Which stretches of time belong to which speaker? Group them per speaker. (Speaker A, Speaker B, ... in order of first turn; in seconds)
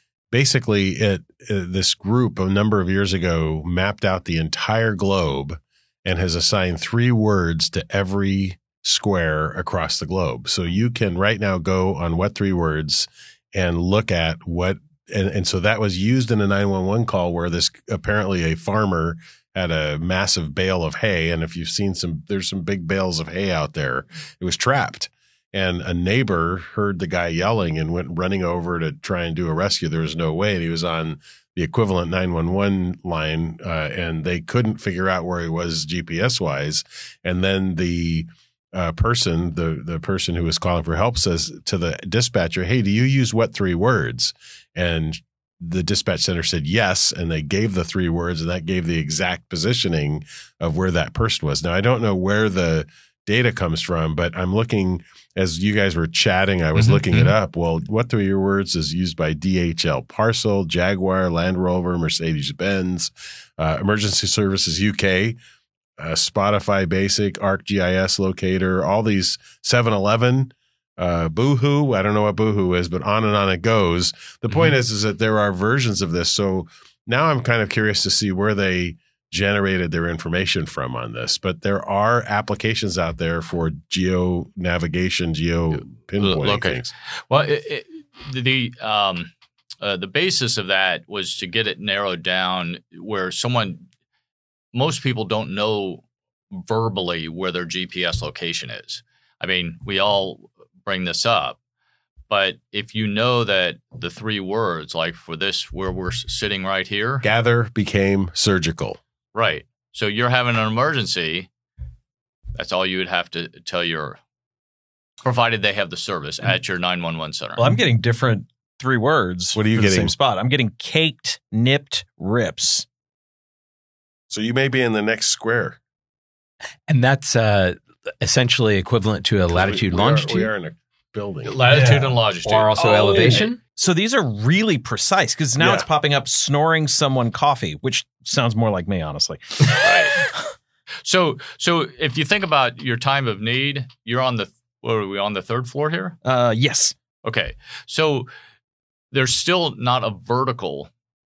Speaker A: 0.3-65.4, 66.0-86.9, 107.2-109.0, 119.5-120.1, 124.3-125.8, 129.5-131.6, 135.6-135.9
Speaker B: 56.8-57.3, 74.5-74.7, 85.7-93.9, 94.7-101.6, 102.3-107.3, 109.3-111.5, 112.6-114.2, 115.2-117.7, 131.4-133.5, 139.8-140.2, 141.1-146.2, 147.2-148.3, 149.1-150.9
Speaker C: 117.6-122.9, 131.7-132.2, 132.8-140.3, 146.2-146.9
Speaker D: 126.9-130.5, 132.4-133.6